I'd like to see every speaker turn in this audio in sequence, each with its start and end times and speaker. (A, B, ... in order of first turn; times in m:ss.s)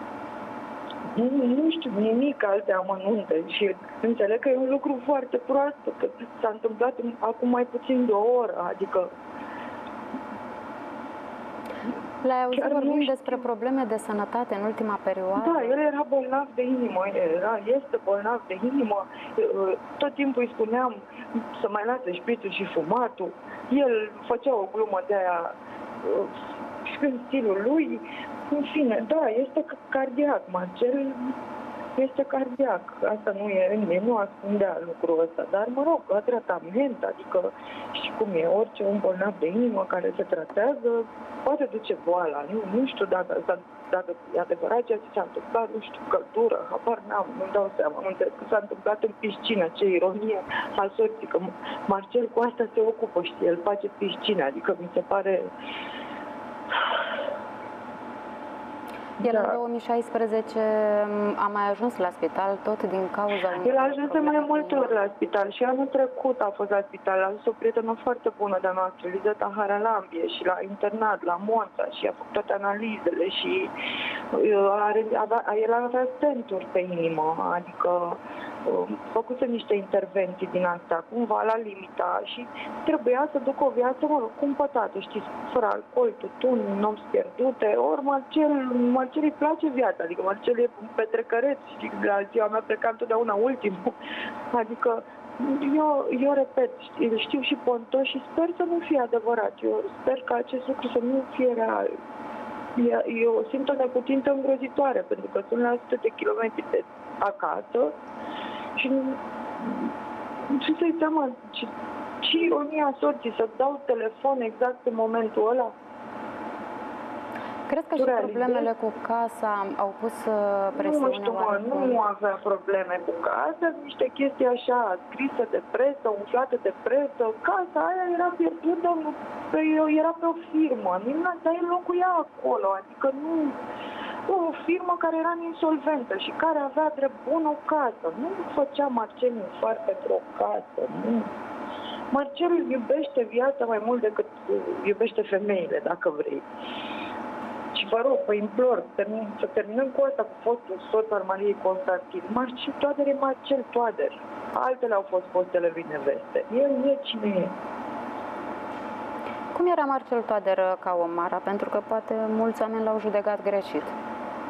0:01.1-0:09.1 A
0:12.2-0:15.8 B
0:12.5-0:13.4 A
0:15.4-0:31.3 A
0:32.0-0:55.5 A
0:59.2-0:59.6 A
0:59.2-1:05.0 B
1:03.6-1:13.7 A
1:14.3-1:34.0 A
1:34.5-1:41.9 A
1:42.8-1:47.9 A
1:48.8-1:49.9 A
1:50.5-1:51.7 A
1:52.2-1:55.7 A
1:57.7-2:02.0 B
1:58.0-1:58.7 A
2:00.7-2:13.6 A
2:14.3-2:21.3 A
2:22.1-2:26.4 A
2:27.7-2:37.5 A
2:39.5-2:43.9 B